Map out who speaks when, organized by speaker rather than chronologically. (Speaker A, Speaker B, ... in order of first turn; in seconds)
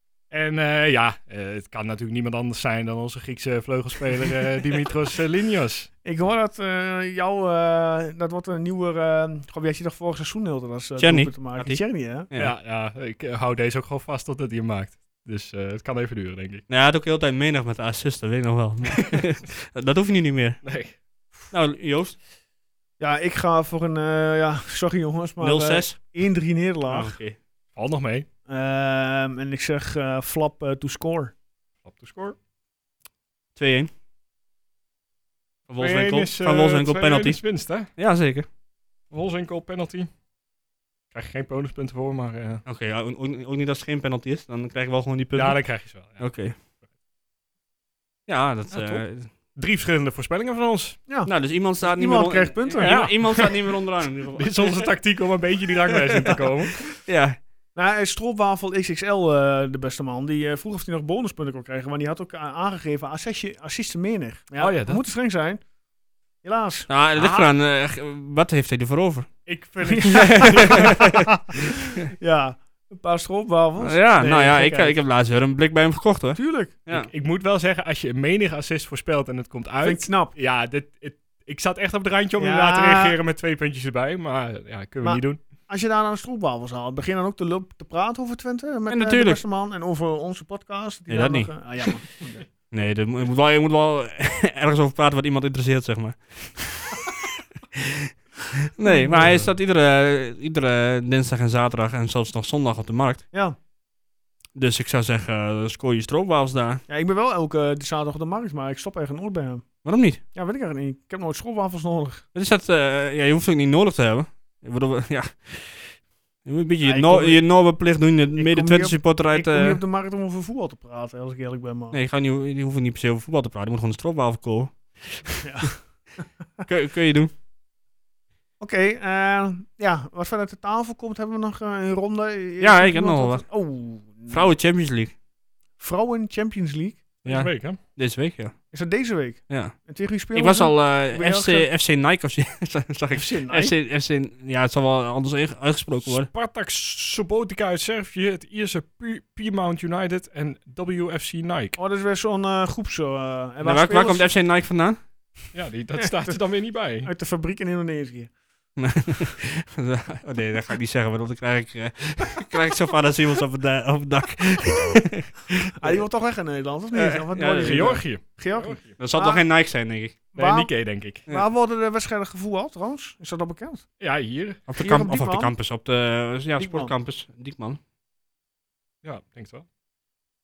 Speaker A: 0.3-5.9, 12.3-16.6, 20.6-21.0, 27.7-28.3, 31.8-32.4, 35.8-37.9, 39.1-40.1, 41.1-42.6, 45.3-46.4, 48.7-51.0, 52.8-53.7, 54.3-56.9, 64.6-65.0, 67.1-67.5, 69.5-71.0, 76.9-85.4, 137.2-137.8, 146.0-151.8, 155.5-157.1, 167.6-168.9, 170.3-171.2, 174.0-174.6, 179.0-179.7
Speaker B: 6.0-12.3, 23.0-27.1, 28.5-31.3, 51.1-52.9, 57.7-65.6, 66.4-66.9, 69.8-75.0, 76.3-76.8, 79.8-80.3, 82.4-83.2, 85.0-92.5, 98.8-99.5, 103.3-103.6, 106.9-109.7, 110.3-112.2, 116.8-117.4, 118.3-122.0, 125.4-126.2, 128.6-134.5, 135.8-137.1, 138.7-141.7, 143.1-143.7, 151.8-154.3, 156.0-156.4, 157.0-158.3, 165.8-169.4, 170.3-173.8, 174.8-175.5, 176.6-176.9
Speaker C: 11.0-12.5, 16.7-20.6, 21.5-22.2, 25.4-26.1, 26.9-27.4, 33.5-33.9, 35.7-38.5, 42.6-46.5, 48.3-49.3, 51.2-54.9, 56.0-57.4, 66.9-69.5, 70.0-71.2, 73.8-77.1, 88.9-89.4, 91.1-91.9, 92.7-97.2, 97.7-103.2, 104.5-106.8, 109.8-110.2, 112.3-119.8, 121.9-125.7, 126.6-127.3, 132.6-135.1, 137.2-138.6, 139.5-146.3, 153.6-155.0, 158.8-166.0, 166.9-168.0, 169.0-170.2, 174.7-177.8